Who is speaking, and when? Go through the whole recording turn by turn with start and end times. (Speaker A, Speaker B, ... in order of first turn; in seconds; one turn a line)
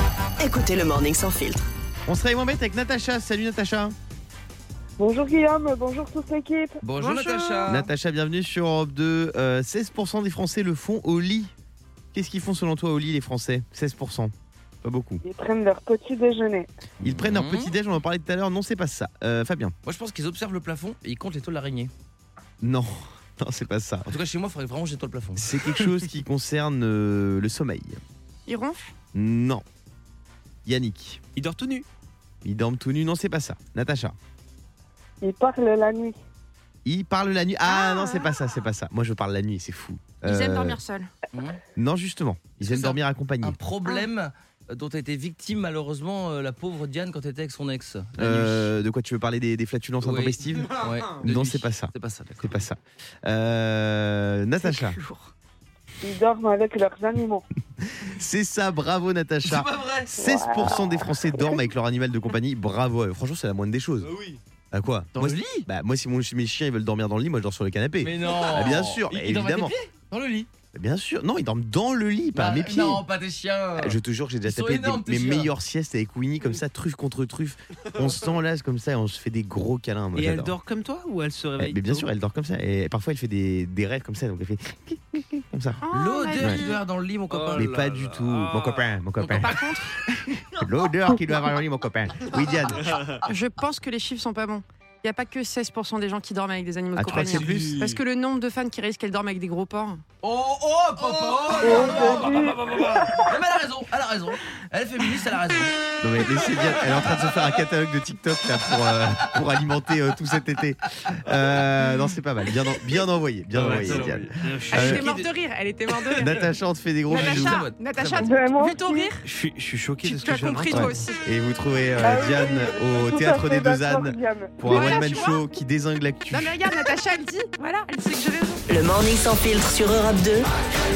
Speaker A: 0.4-1.6
Speaker B: 2.1-3.9
Speaker C: 5.0-6.8
Speaker D: 6.8-7.9
Speaker E: 7.1-7.7
Speaker B: 7.6-11.5
Speaker B: 12.1-14.3
Speaker B: 14.8-15.2
Speaker C: 15.2-16.7
Speaker B: 17.0-19.7
Speaker D: 17.1-17.7
Speaker D: 19.8-21.9
Speaker B: 22.6-24.1
Speaker D: 24.1-25.5
Speaker B: 25.4-28.0
Speaker E: 28.5-28.9
Speaker B: 29.1-29.6
Speaker B: 30.6-31.2
Speaker F: 31.4-31.8
Speaker B: 32.4-34.1
Speaker C: 35.2-36.1
Speaker B: 36.8-40.8
Speaker E: 37.6-38.4
Speaker E: 40.2-41.1
Speaker D: 41.3-41.6
Speaker B: 41.8-43.6
Speaker D: 42.6-48.7
Speaker B: 48.2-55.0
Speaker D: 50.0-52.6
Speaker E: 54.6-55.3
Speaker C: 56.0-57.5
Speaker B: 57.8-64.1
Speaker C: 60.2-61.5
Speaker B: 64.7-69.7
Speaker F: 65.1-65.6
Speaker D: 68.0-70.5
Speaker B: 70.7-73.0
Speaker D: 72.3-75.5
Speaker B: 73.8-80.5
Speaker F: 80.1-82.1
Speaker B: 81.6-85.8
Speaker E: 85.8-86.7
Speaker D: 85.9-88.2
Speaker B: 86.4-86.6
Speaker F: 87.3-87.7
Speaker B: 87.5-89.6
Speaker F: 88.2-88.8
Speaker E: 89.2-90.0
Speaker B: 90.5-93.0
Speaker E: 93.2-100.0
Speaker B: 96.9-97.9
Speaker F: 97.3-98.0
Speaker D: 100.2-105.7
Speaker F: 101.4-102.9
Speaker C: 101.6-103.2
Speaker B: 106.0-115.1
Speaker F: 113.5-114.9
Speaker D: 113.6-114.2
Speaker E: 114.6-116.5
Speaker D: 114.7-115.2
Speaker B: 116.2-117.6
Speaker E: 117.1-119.3
Speaker D: 117.1-118.3
Speaker C: 118.2-119.1
Speaker F: 119.2-121.0
Speaker E: 120.0-121.2
Speaker B: 120.6-126.7
Speaker C: 122.0-124.9
Speaker E: 124.6-125.4
Speaker E: 126.3-128.6
Speaker A: 128.7-130.4